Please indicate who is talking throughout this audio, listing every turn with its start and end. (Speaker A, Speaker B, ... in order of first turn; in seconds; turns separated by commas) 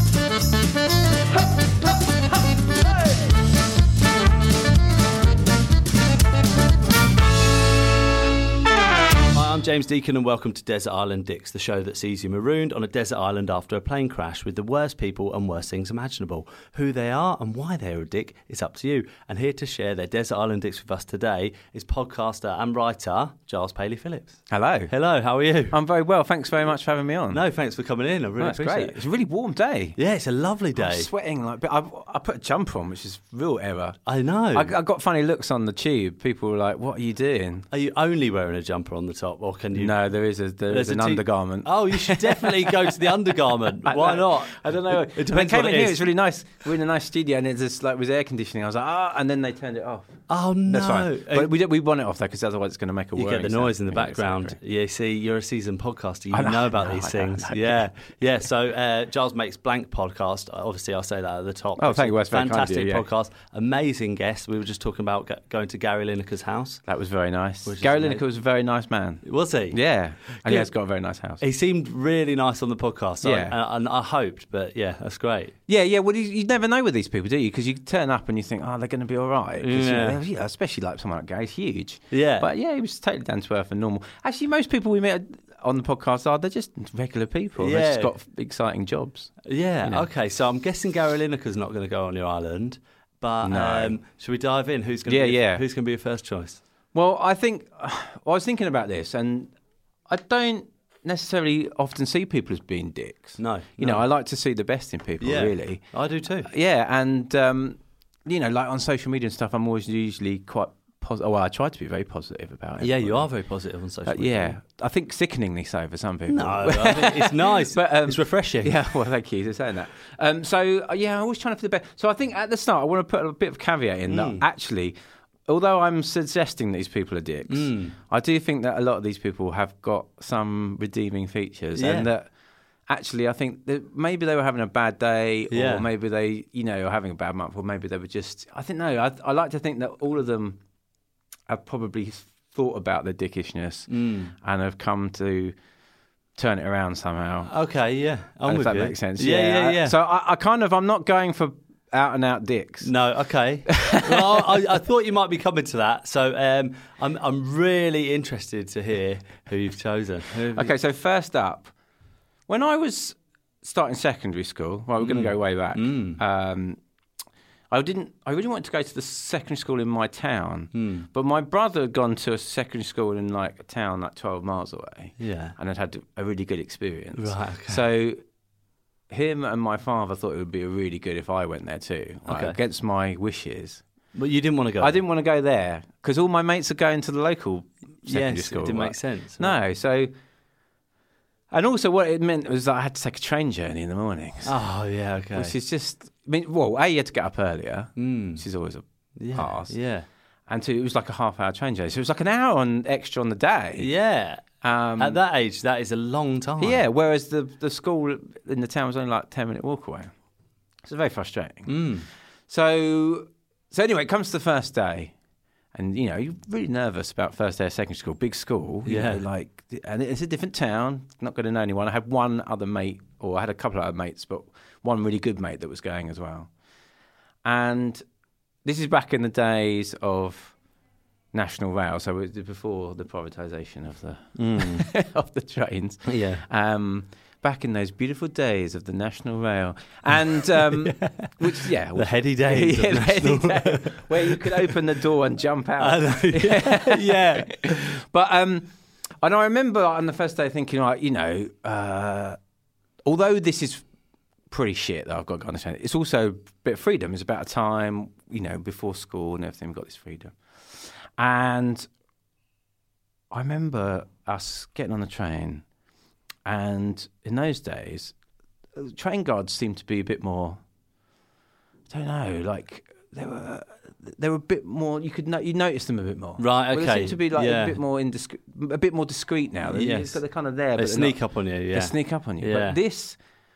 Speaker A: 9.3-25.8, Speaker B: 24.5-24.9, Speaker B: 25.7-27.4, Speaker A: 27.3-29.0, Speaker B: 28.4-30.0, Speaker A: 30.0-31.1, Speaker B: 30.8-34.0, Speaker A: 34.1-34.7, Speaker B: 34.5-37.7, Speaker A: 37.7-40.0, Speaker B: 39.7-43.1, Speaker A: 40.7-46.0, Speaker B: 43.8-54.6, Speaker A: 50.3-51.5, Speaker A: 53.1-66.8, Speaker B: 56.3-57.9, Speaker B: 61.8-63.0, Speaker B: 66.8-71.4, Speaker A: 67.7-68.2, Speaker A: 69.2-70.7, Speaker A: 71.4-75.5, Speaker B: 73.2-73.5, Speaker B: 75.7-90.1, Speaker A: 79.6-80.2, Speaker A: 82.1-82.5, Speaker A: 87.6-88.1, Speaker A: 89.4-96.6, Speaker B: 93.4-94.0, Speaker B: 95.0-95.6, Speaker B: 96.9-99.5, Speaker B: 100.1-105.8, Speaker A: 103.4-104.0, Speaker A: 105.2-106.5, Speaker B: 106.4-113.3, Speaker A: 112.8-114.5, Speaker B: 114.0-132.3, Speaker A: 116.3-118.9, Speaker A: 124.1-124.4, Speaker A: 127.5-128.0, Speaker A: 131.8-132.1, Speaker B: 132.9-140.6, Speaker A: 135.5-135.8, Speaker B: 141.5-145.5, Speaker A: 143.9-144.3, Speaker B: 146.3-147.5, Speaker A: 147.5-150.0, Speaker B: 148.4-152.9, Speaker A: 152.8-160.7, Speaker B: 153.7-154.6, Speaker B: 160.5-161.7, Speaker B: 162.5-166.8, Speaker A: 165.0-166.2, Speaker B: 167.7-178.2, Speaker A: 170.7-171.1, Speaker A: 175.2-175.5, Speaker A: 177.2-177.8, Speaker B: 179.1-183.8, Speaker A: 182.3-182.6, Speaker A: 184.1-185.0, Speaker B: 184.8-190.1, Speaker A: 188.0-189.5, Speaker B: 191.5-194.6, Speaker A: 194.4-195.5, Speaker B: 195.3-199.7, Speaker A: 198.0-198.4, Speaker A: 199.2-200.1, Speaker B: 200.5-203.9, Speaker A: 203.8-206.8, Speaker B: 204.6-205.2, Speaker B: 206.6-210.1, Speaker B: 210.8-211.9, Speaker A: 211.7-212.1, Speaker B: 212.5-215.1, Speaker B: 215.7-226.5, Speaker A: 218.8-219.2, Speaker B: 227.4-228.0, Speaker B: 228.6-230.5, Speaker B: 231.3-252.4, Speaker A: 234.4-234.9, Speaker A: 236.1-236.4, Speaker A: 240.5-244.7, Speaker A: 245.8-247.9, Speaker B: 253.0-253.8, Speaker B: 254.5-261.9, Speaker B: 263.3-265.6, Speaker B: 266.4-268.1, Speaker B: 268.7-270.6, Speaker B: 271.9-281.2, Speaker A: 276.4-277.8, Speaker A: 279.7-280.2, Speaker A: 280.8-282.8, Speaker B: 281.7-283.2